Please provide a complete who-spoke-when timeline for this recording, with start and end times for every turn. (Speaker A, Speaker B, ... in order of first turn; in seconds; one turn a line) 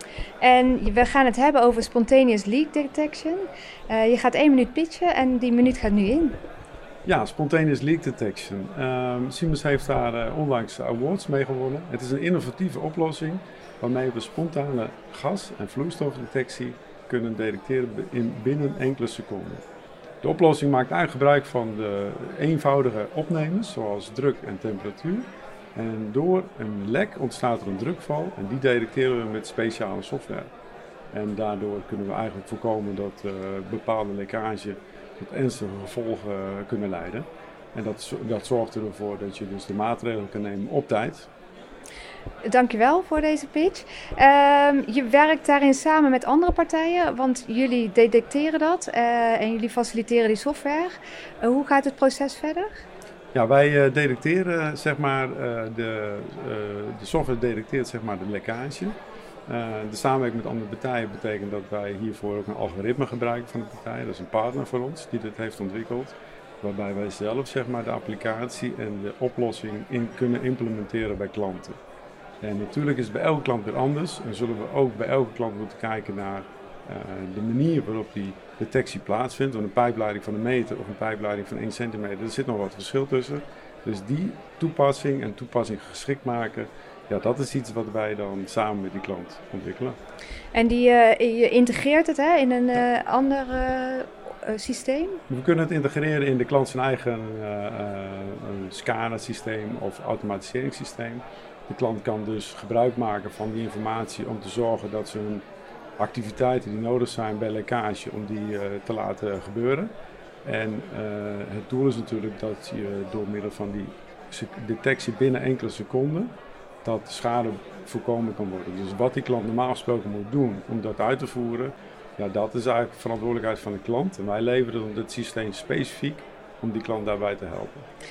Speaker A: 0.4-6.4
Speaker B: 7.1-19.6
Speaker B: 20.2-30.5
Speaker B: 31.1-41.3
Speaker A: 42.4-52.7
Speaker B: 53.3-59.0
Speaker B: 59.5-71.8
Speaker B: 72.4-90.0
Speaker A: 90.5-95.2
Speaker B: 95.3-105.4
Speaker B: 106.0-109.9
Speaker B: 110.5-116.3
Speaker B: 116.8-127.9